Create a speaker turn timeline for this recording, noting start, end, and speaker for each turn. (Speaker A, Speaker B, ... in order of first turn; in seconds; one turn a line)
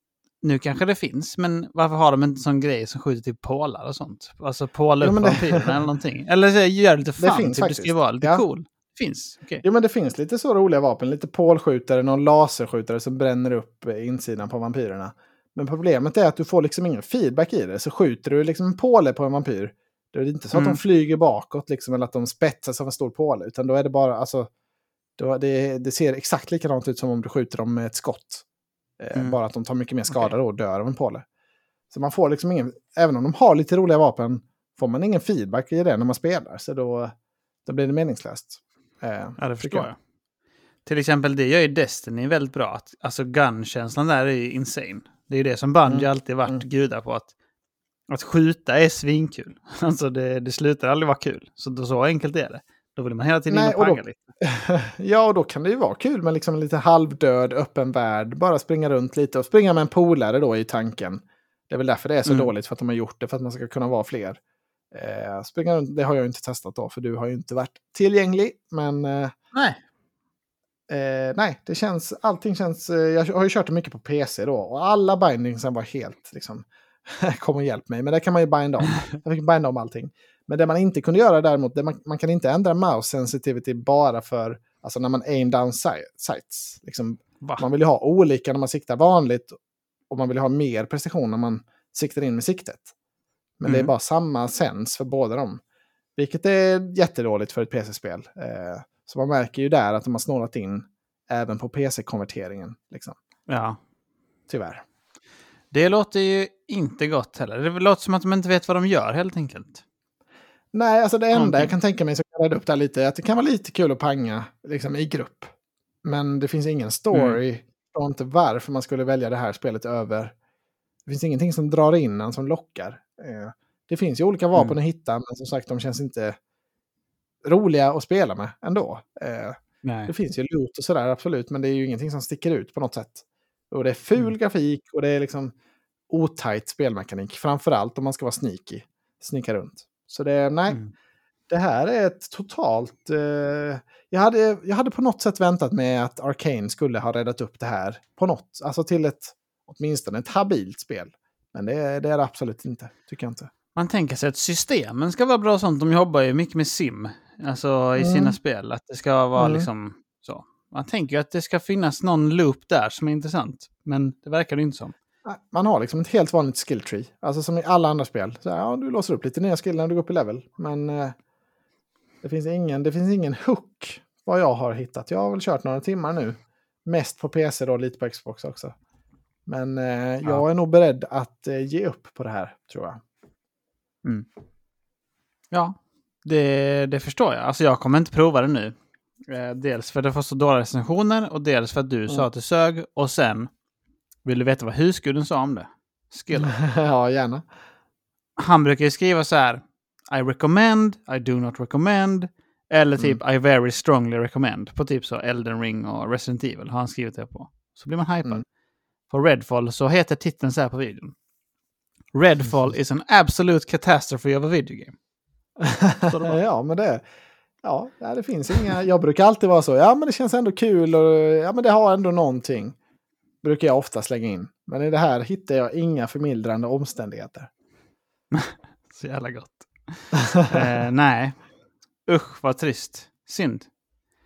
Speaker A: 0.4-9.6
Speaker B: 5.0-5.7
Speaker B: 7.2-8.4
Speaker B: 9.6-24.5
Speaker A: 20.5-20.8
Speaker B: 25.2-28.4
Speaker B: 29.0-31.2
Speaker B: 31.9-37.1
Speaker B: 37.6-39.9
Speaker A: 39.4-40.0
Speaker A: 40.9-47.3
Speaker B: 45.9-46.6
Speaker A: 48.1-54.2
Speaker B: 53.5-64.4
Speaker A: 62.2-62.5
Speaker B: 64.9-69.3
Speaker A: 69.5-69.8
Speaker B: 70.9-89.6
Speaker B: 90.1-92.9
Speaker B: 93.6-95.6
Speaker A: 93.7-93.9
Speaker B: 96.2-103.2
Speaker A: 103.5-103.8
Speaker B: 104.5-104.8
Speaker A: 105.7-109.8
Speaker B: 110.7-115.5
Speaker A: 111.3-111.7
Speaker B: 116.0-120.3
Speaker A: 117.1-117.4
Speaker B: 121.1-126.4
Speaker B: 127.4-135.5
Speaker A: 129.8-130.1
Speaker B: 136.1-140.8
Speaker B: 141.5-153.5
Speaker A: 153.8-164.9
Speaker B: 158.0-158.3
Speaker B: 159.4-159.7
Speaker B: 165.2-171.1
Speaker B: 172.2-178.7
Speaker B: 179.5-183.0
Speaker A: 185.5-188.8
Speaker A: 189.3-193.5
Speaker A: 194.2-196.5
Speaker B: 196.4-197.5
Speaker A: 198.4-208.4
Speaker A: 209.1-211.1
Speaker A: 212.1-214.9
Speaker B: 215.6-217.0
Speaker A: 216.1-216.3
Speaker B: 217.6-222.8
Speaker B: 223.4-227.5
Speaker A: 228.3-231.4
Speaker B: 230.3-230.6
Speaker A: 232.1-233.7